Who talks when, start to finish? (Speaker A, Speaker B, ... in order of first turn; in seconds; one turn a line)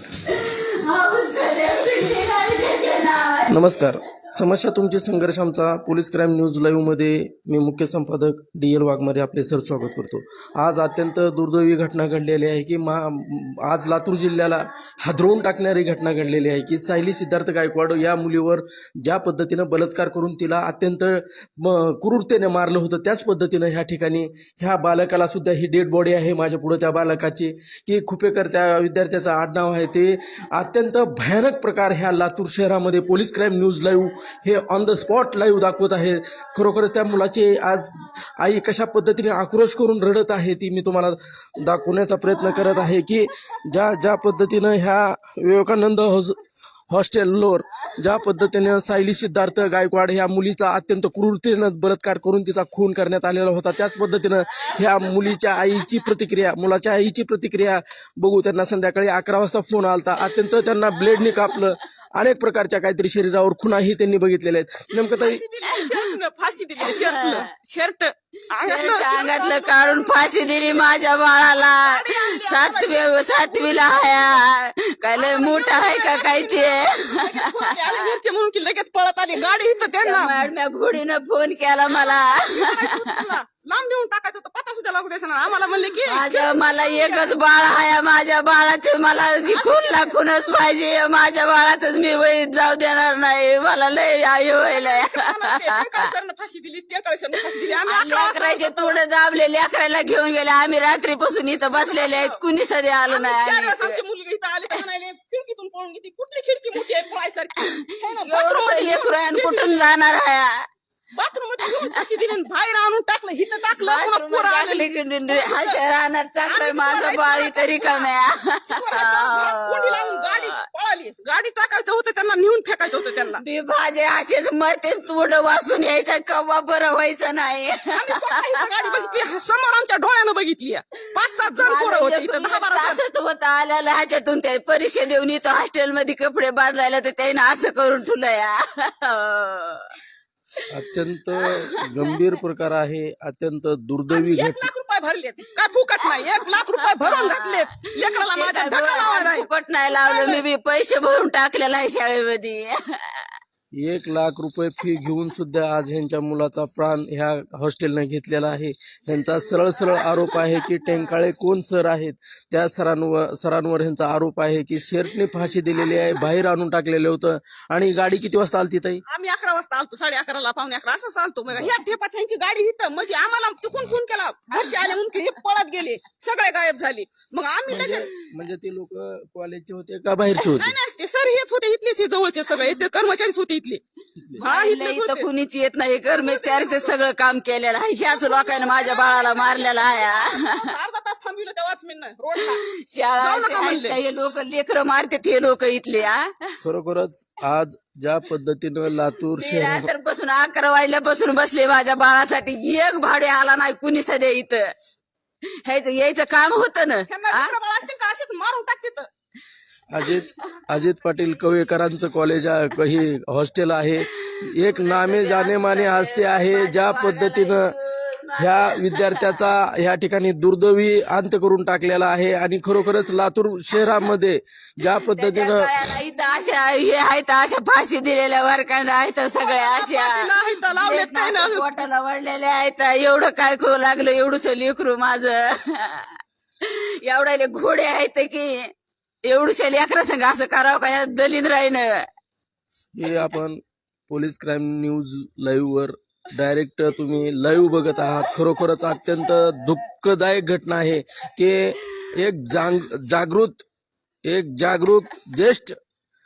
Speaker A: 0.3-3.6
Speaker B: 3.5-46.4
Speaker B: 46.9-65.4
Speaker C: 65.1-71.0
Speaker A: 65.7-66.0
Speaker A: 66.8-67.5
Speaker A: 68.6-78.2
Speaker C: 71.5-74.4
Speaker C: 75.2-80.4
Speaker A: 80.0-83.3
Speaker C: 81.9-87.4
Speaker A: 86.0-96.1
Speaker C: 89.5-90.1
Speaker C: 94.7-99.0
Speaker A: 97.8-104.0
Speaker C: 101.7-102.4
Speaker C: 103.1-109.9
Speaker A: 107.7-110.6
Speaker C: 111.1-115.8
Speaker A: 113.7-120.6
Speaker C: 116.5-118.1
Speaker C: 118.7-123.4
Speaker A: 123.4-129.3
Speaker C: 127.9-133.0
Speaker A: 131.5-140.0
Speaker B: 140.7-144.7
Speaker A: 141.6-142.1
Speaker C: 144.1-150.4
Speaker A: 146.0-153.3
Speaker B: 153.7-169.0
Speaker C: 169.1-178.1
Speaker B: 177.7-180.8
Speaker C: 180.6-183.8
Speaker C: 184.4-185.3
Speaker A: 184.4-190.7
Speaker C: 186.1-187.0
Speaker C: 188.1-192.6
Speaker A: 192.4-196.6
Speaker C: 193.2-194.0
Speaker B: 196.6-199.9
Speaker A: 199.4-204.8
Speaker A: 205.6-207.6
Speaker C: 207.1-209.1
Speaker B: 209.9-217.7
Speaker A: 214.2-219.4
Speaker B: 218.4-225.8
Speaker A: 224.8-238.7
Speaker C: 229.4-231.7
Speaker A: 239.2-242.1
Speaker B: 242.9-253.7
Speaker B: 254.2-255.8